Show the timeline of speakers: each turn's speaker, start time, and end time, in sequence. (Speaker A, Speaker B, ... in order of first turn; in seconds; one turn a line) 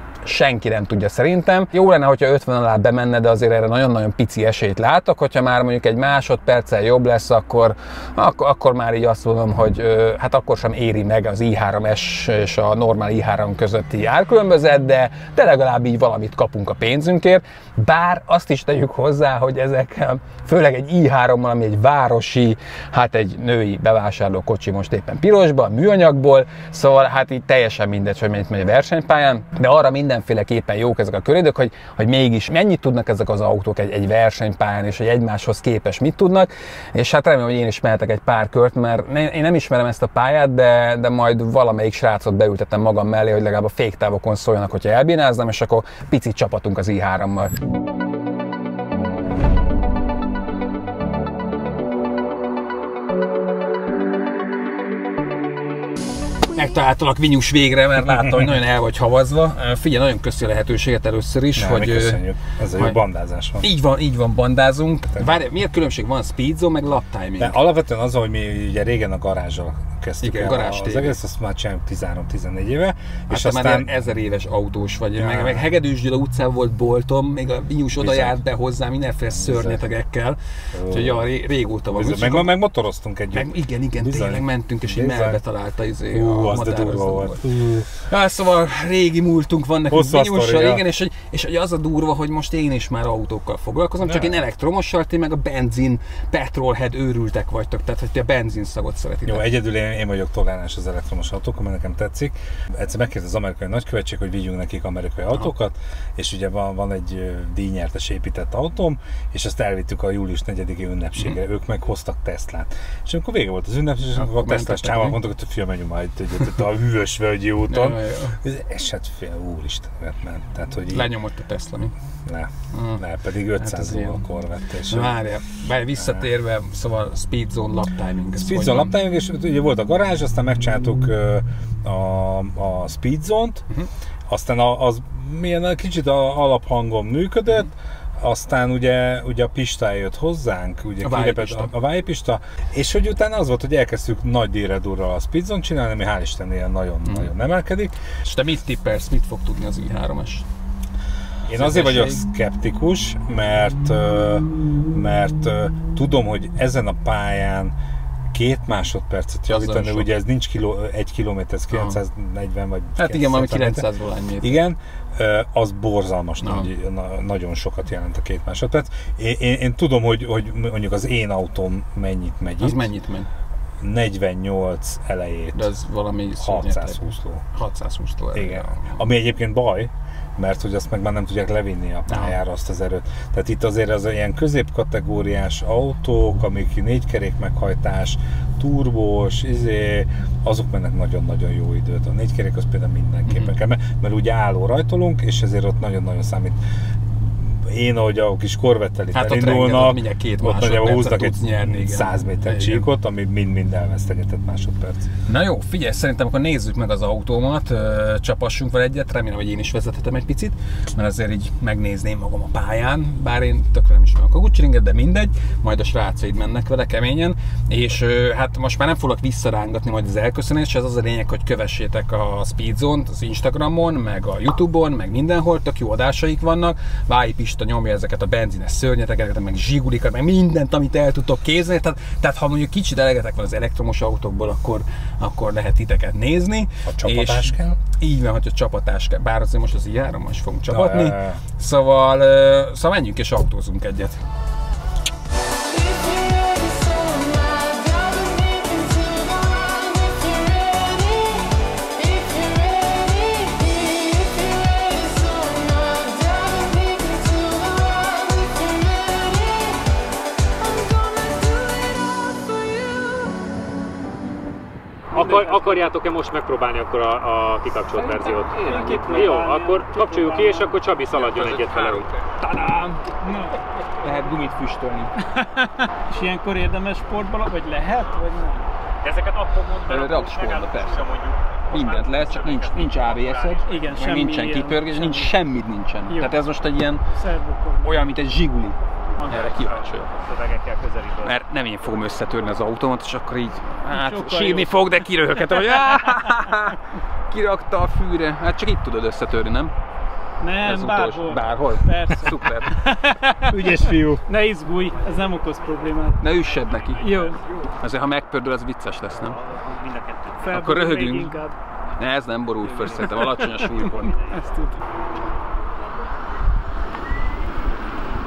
Speaker A: 0.2-47.5
Speaker A: 56.5-62.2
Speaker B: 61.5-63.7
Speaker A: 62.7-63.0
Speaker A: 63.6-67.6
Speaker B: 67.4-73.9
Speaker A: 70.2-71.2
Speaker A: 73.3-82.5
Speaker B: 75.2-75.7
Speaker B: 78.0-78.4
Speaker B: 79.3-79.8
Speaker B: 80.7-81.3
Speaker B: 81.9-85.4
Speaker A: 83.3-99.5
Speaker B: 86.1-87.9
Speaker B: 89.9-90.8
Speaker B: 94.0-94.4
Speaker B: 99.3-121.1
Speaker A: 114.1-115.2
Speaker A: 117.7-118.4
Speaker A: 120.9-121.9
Speaker B: 122.2-125.2
Speaker A: 122.7-123.0
Speaker A: 123.5-124.2
Speaker A: 124.9-128.9
Speaker B: 126.0-126.3
Speaker B: 128.3-133.7
Speaker B: 134.3-148.0
Speaker A: 141.0-141.7
Speaker A: 148.1-150.4
Speaker B: 151.4-157.7
Speaker A: 151.5-152.2
Speaker B: 158.3-163.8
Speaker A: 159.5-160.1
Speaker A: 161.7-162.0
Speaker A: 162.9-164.6
Speaker B: 164.4-172.9
Speaker A: 166.4-166.7
Speaker A: 172.6-173.3
Speaker B: 173.8-175.7
Speaker A: 175.5-179.0
Speaker B: 176.4-177.4
Speaker B: 178.3-196.6
Speaker A: 182.1-182.4
Speaker A: 193.3-193.6
Speaker B: 197.2-205.1
Speaker A: 199.1-202.9
Speaker A: 205.2-244.2
Speaker B: 236.8-237.8
Speaker B: 240.7-241.4
Speaker C: 265.1-272.1
Speaker D: 265.1-265.8
Speaker A: 268.0-269.3
Speaker D: 268.3-270.7
Speaker A: 271.1-273.0
Speaker D: 273.2-273.6
Speaker A: 273.9-275.2
Speaker D: 275.3-278.7
Speaker C: 279.0-284.0
Speaker A: 279.9-281.1
Speaker A: 281.7-287.0
Speaker D: 283.6-285.4
Speaker D: 286.1-286.3
Speaker D: 287.1-288.0
Speaker A: 287.8-290.2
Speaker D: 289.2-289.4
Speaker C: 289.3-291.4
Speaker A: 291.2-299.7
Speaker D: 293.9-294.8
Speaker D: 300.4-306.2
Speaker A: 300.6-302.8
Speaker C: 304.9-307.6
Speaker A: 306.2-307.1
Speaker D: 307.0-307.4
Speaker A: 307.8-309.4
Speaker C: 309.1-310.5
Speaker D: 310.4-311.6
Speaker A: 310.5-311.4
Speaker A: 312.0-314.2
Speaker C: 312.6-314.6
Speaker D: 312.9-313.5
Speaker D: 314.3-314.8